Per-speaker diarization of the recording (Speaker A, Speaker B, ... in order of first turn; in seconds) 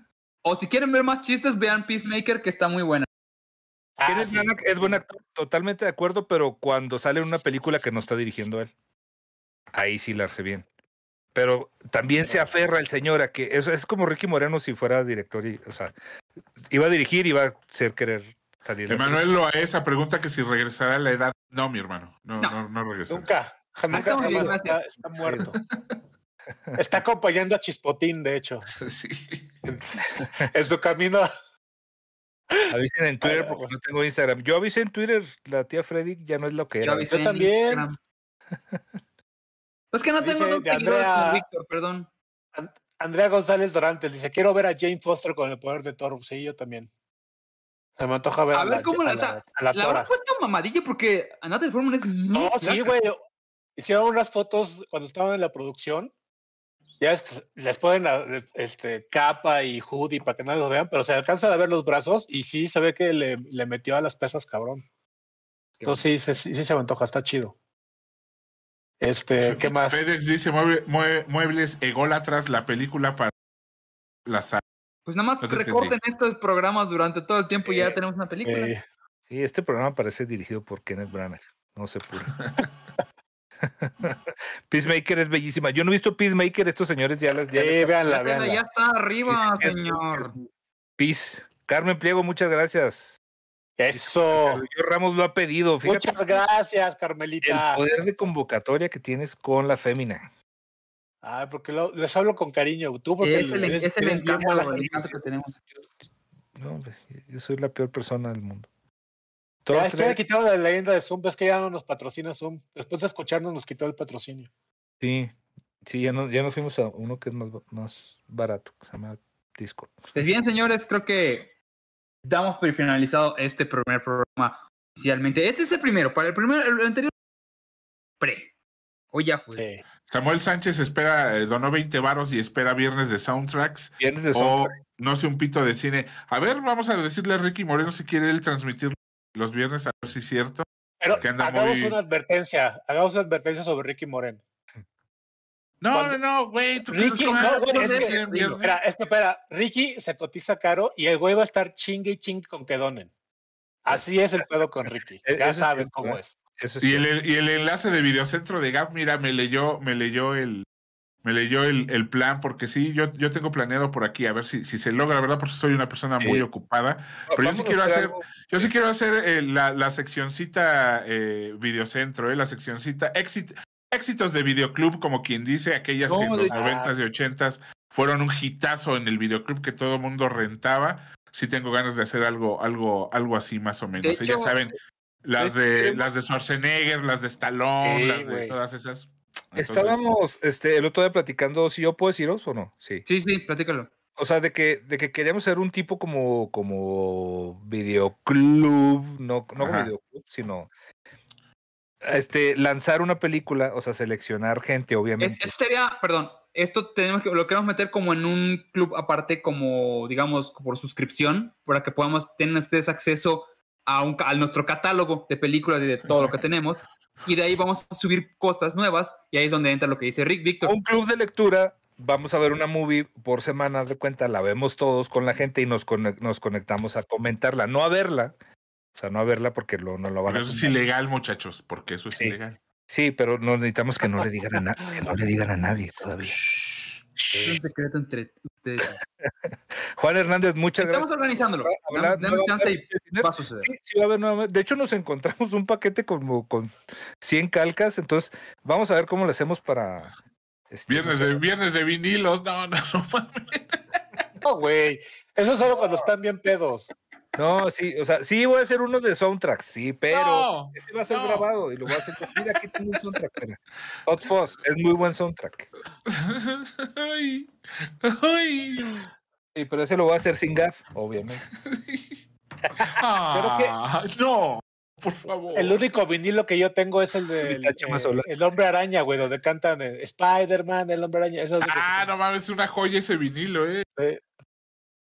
Speaker A: 0.4-3.1, 23.9-24.8, 36.8-38.0, 39.9-42.1, 48.5-53.0, 65.8-66.0, 75.1-78.7, 88.1-90.3, 103.2-105.6, 120.1-121.5, 122.2-127.1, 128.2-128.5, 129.1-129.7, 147.0-148.6, 184.0-184.6, 193.1-193.9, 205.2-220.8, 237.3-239.0, 240.8-243.7
Speaker B: 4.0-5.0, 12.2-12.5, 23.1-25.6, 26.8-28.7, 29.6-31.3, 32.5-33.7, 37.1-37.9, 40.2-41.4, 42.5-46.9, 48.0-50.1, 52.3-53.2, 53.8-56.1, 57.0-64.8, 65.8-67.5, 69.0-70.1, 78.5-78.8, 87.5-88.6, 93.8-94.6, 95.8-97.8, 101.2-105.2, 109.7-114.5, 129.5-129.8, 141.0-144.4, 145.9-146.2, 146.9-153.1, 153.8-156.4, 176.5-176.9, 187.8-188.6, 254.4-256.9, 273.3-273.8, 275.6-282.1, 284.0-284.2
Speaker C: 4.1-8.7, 9.7-10.7, 11.3-15.9, 16.6-19.2, 32.7-37.1, 79.3-82.4, 83.6-88.0, 89.3-90.5, 91.0-93.2, 93.9-96.4, 97.4-100.3, 106.6-108.7, 109.7-110.2, 115.0-119.9, 134.0-134.8, 155.2-157.1, 167.3-168.7, 176.1-176.6, 185.4-186.0, 189.6-193.1, 194.2-200.7, 202.0-205.6, 220.6-228.3, 228.9-230.8, 232.9-236.5, 237.2-237.6, 238.8-250.2, 250.7-251.4, 257.4-265.7, 269.6-271.4, 277.4-278.3
Speaker D: 18.9-23.3, 25.7-26.0, 28.7-29.5, 69.4-73.3, 74.3-74.6, 75.4-76.0, 130.1-140.7, 141.2-142.0, 145.8-148.8, 156.8-160.7, 161.2-190.1, 199.6-199.9, 230.3-232.6, 250.9-253.8, 260.1-262.4, 266.1-269.1, 271.6-272.2, 272.8-275.8, 281.6-283.9